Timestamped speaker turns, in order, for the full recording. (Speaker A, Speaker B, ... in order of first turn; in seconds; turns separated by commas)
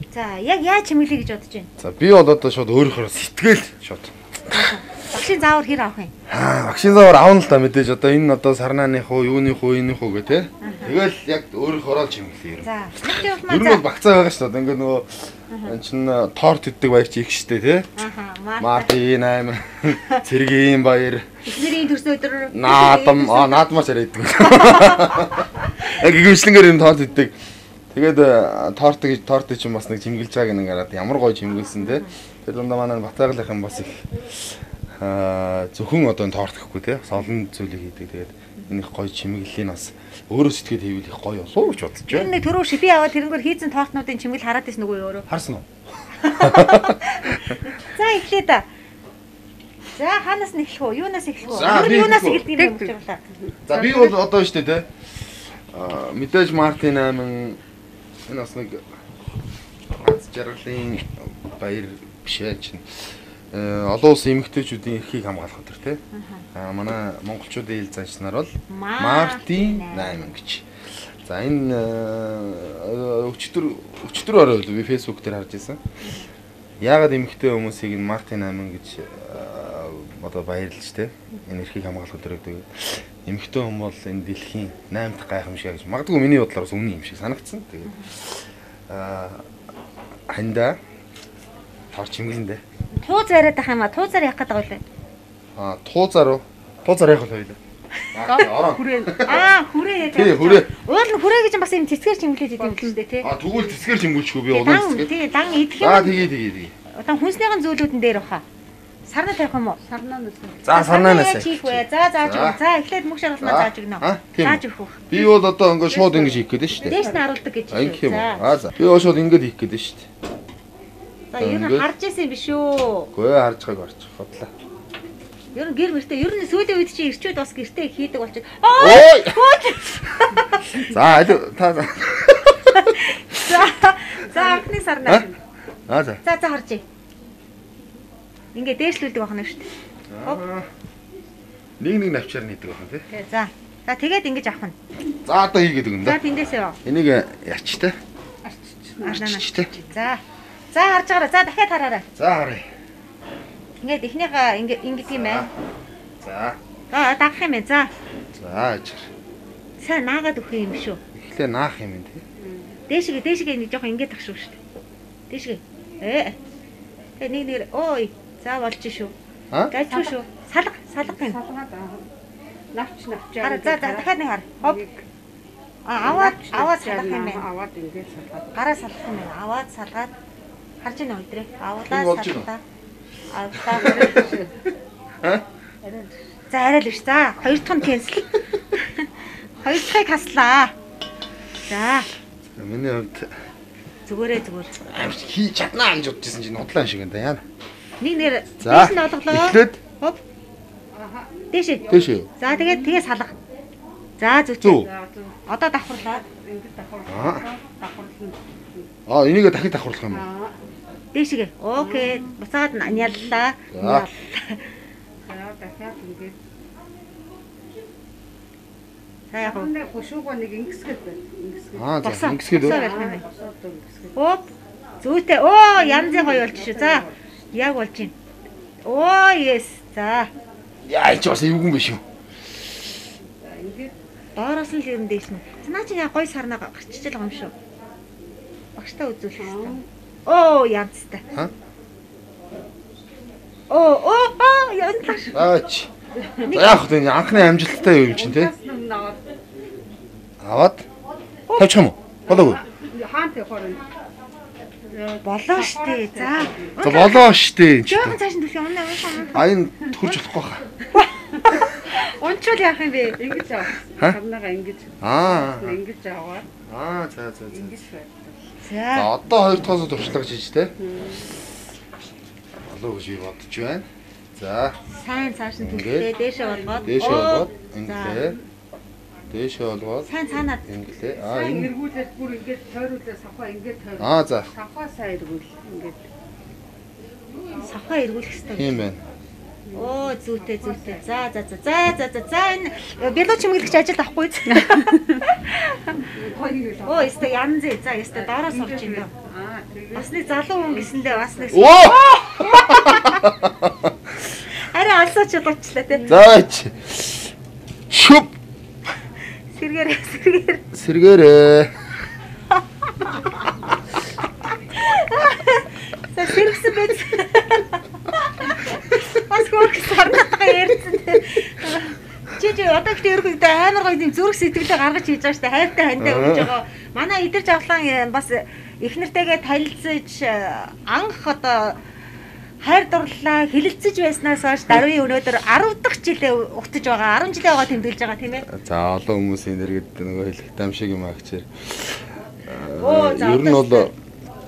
Speaker A: 0.1-1.7, Speaker B: 1.8-4.8, Speaker A: 4.5-6.1, Speaker B: 6.3-15.1, Speaker A: 10.6-11.0, Speaker A: 12.6-13.8, Speaker B: 15.6-17.9, Speaker A: 18.0-18.9, Speaker B: 18.6-21.3, Speaker A: 21.5-23.6, Speaker B: 22.5-27.4, Speaker B: 27.9-42.3, Speaker A: 31.8-32.1, Speaker A: 42.1-45.3, Speaker B: 45.3-45.7, Speaker A: 46.2-48.7, Speaker B: 46.3-47.6, Speaker A: 50.0-53.2, Speaker B: 51.5-52.5, Speaker C: 52.6-52.9, Speaker B: 53.7-54.9, Speaker A: 53.8-54.1, Speaker B: 55.7-57.6, Speaker B: 58.3-58.9, Speaker B: 60.0-62.9, Speaker B: 63.5-66.0, Speaker A: 66.1-66.5, Speaker B: 66.5-70.7, Speaker A: 68.7-70.2, Speaker B: 71.2-75.8, Speaker A: 76.0-76.3, Speaker B: 76.8-89.5, Speaker B: 90.3-90.8, Speaker B: 91.9-92.6, Speaker A: 93.0-94.8, Speaker B: 95.6-97.6, Speaker B: 98.1-99.5, Speaker A: 98.2-103.3, Speaker B: 100.1-100.7, Speaker B: 103.2-105.1, Speaker A: 104.5-106.2, Speaker B: 105.8-106.7, Speaker A: 107.0-108.5, Speaker A: 109.1-109.8, Speaker C: 109.9-110.6, Speaker B: 110.6-112.6, Speaker A: 110.7-115.1, Speaker B: 113.4-117.1, Speaker C: 115.9-117.2, Speaker A: 116.9-118.4, Speaker B: 117.7-120.1, Speaker A: 121.3-123.1, Speaker B: 121.4-121.9, Speaker B: 123.1-124.5, Speaker A: 125.5-130.8, Speaker B: 128.8-129.4, Speaker B: 130.8-133.6, Speaker A: 132.8-135.3, Speaker B: 135.9-136.2, Speaker A: 136.2-136.8, Speaker A: 138.6-139.7, Speaker B: 140.1-140.7, Speaker B: 141.8-143.1, Speaker A: 143.1-144.8, Speaker B: 145.2-146.2, Speaker A: 146.0-146.8, Speaker B: 146.8-148.0, Speaker C: 148.4-149.0, Speaker A: 149.0-150.2, Speaker B: 149.1-149.7, Speaker A: 150.7-152.1, Speaker B: 152.2-152.7, Speaker A: 153.8-155.5, Speaker B: 155.1-155.5, Speaker B: 156.2-156.6, Speaker A: 156.9-157.9, Speaker B: 158.4-159.1, Speaker A: 159.8-161.0, Speaker B: 161.2-162.2, Speaker A: 162.9-164.6, Speaker A: 165.3-166.4, Speaker A: 167.2-169.1, Speaker A: 169.7-171.4, Speaker C: 171.1-172.1, Speaker C: 172.7-174.1, Speaker A: 173.4-174.8, Speaker C: 174.6-175.0, Speaker A: 175.9-177.5, Speaker C: 176.1-178.4, Speaker A: 178.6-180.1, Speaker A: 180.8-182.6, Speaker B: 181.8-182.5, Speaker A: 183.3-184.4, Speaker B: 183.7-184.0, Speaker C: 184.0-184.4, Speaker A: 186.5-189.1, Speaker A: 189.6-190.8, Speaker A: 191.7-192.1, Speaker B: 192.6-193.3, Speaker A: 194.1-194.7, Speaker B: 194.8-197.4, Speaker A: 198.0-200.2, Speaker B: 198.6-199.8, Speaker C: 200.9-201.3, Speaker A: 201.5-203.3, Speaker B: 201.9-202.3, Speaker A: 204.2-204.9, Speaker B: 204.6-204.9, Speaker C: 204.9-205.3, Speaker A: 205.5-206.3, Speaker C: 206.3-208.4, Speaker B: 207.1-207.5, Speaker B: 209.1-210.3, Speaker C: 210.1-210.6, Speaker A: 211.1-214.6, Speaker C: 211.9-212.2, Speaker B: 213.7-214.1, Speaker C: 215.3-216.4, Speaker A: 219.3-219.7, Speaker C: 219.4-221.8, Speaker B: 221.7-222.8, Speaker A: 222.0-223.2, Speaker C: 222.6-224.1, Speaker A: 224.2-224.5, Speaker A: 225.0-228.1, Speaker C: 225.8-227.2, Speaker A: 228.8-230.3, Speaker B: 230.8-232.0, Speaker C: 233.4-233.9, Speaker A: 234.4-237.5, Speaker A: 238.8-241.2, Speaker C: 239.4-239.8, Speaker A: 243.7-245.4, Speaker B: 245.3-245.9, Speaker A: 246.4-246.9, Speaker B: 246.5-248.5, Speaker C: 248.2-249.2, Speaker B: 250.4-250.9, Speaker A: 251.5-251.8, Speaker B: 251.6-252.6, Speaker C: 252.8-253.9, Speaker C: 254.9-256.7, Speaker A: 255.2-257.3, Speaker B: 256.8-258.2, Speaker A: 257.9-259.4, Speaker B: 259.3-260.7, Speaker A: 260.9-263.2, Speaker C: 263.2-266.5, Speaker B: 265.0-265.8, Speaker B: 266.7-267.8, Speaker C: 267.5-268.4, Speaker A: 268.6-269.1, Speaker B: 268.9-270.7, Speaker C: 270.8-271.3, Speaker B: 272.7-274.8, Speaker A: 274.9-278.4, Speaker B: 275.6-276.1, Speaker C: 276.4-276.8, Speaker B: 276.8-278.4, Speaker B: 279.3-280.1, Speaker A: 280.1-280.6, Speaker B: 280.6-281.7, Speaker C: 281.3-286.1, Speaker B: 284.0-284.5, Speaker A: 287.5-288.8, Speaker B: 288.6-289.0, Speaker A: 289.7-296.1, Speaker C: 290.4-290.9, Speaker C: 296.1-297.2, Speaker A: 296.8-299.1, Speaker C: 298.4-300.1, Speaker A: 299.9-303.2, Speaker C: 300.7-301.0, Speaker B: 301.5-303.9, Speaker A: 304.6-306.1, Speaker B: 306.1-307.3, Speaker B: 307.9-308.3, Speaker A: 309.5-310.7, Speaker B: 310.7-311.7, Speaker A: 314.8-331.8, Speaker B: 326.0-326.5, Speaker A: 332.6-338.5, Speaker B: 338.5-343.9, Speaker A: 342.8-343.9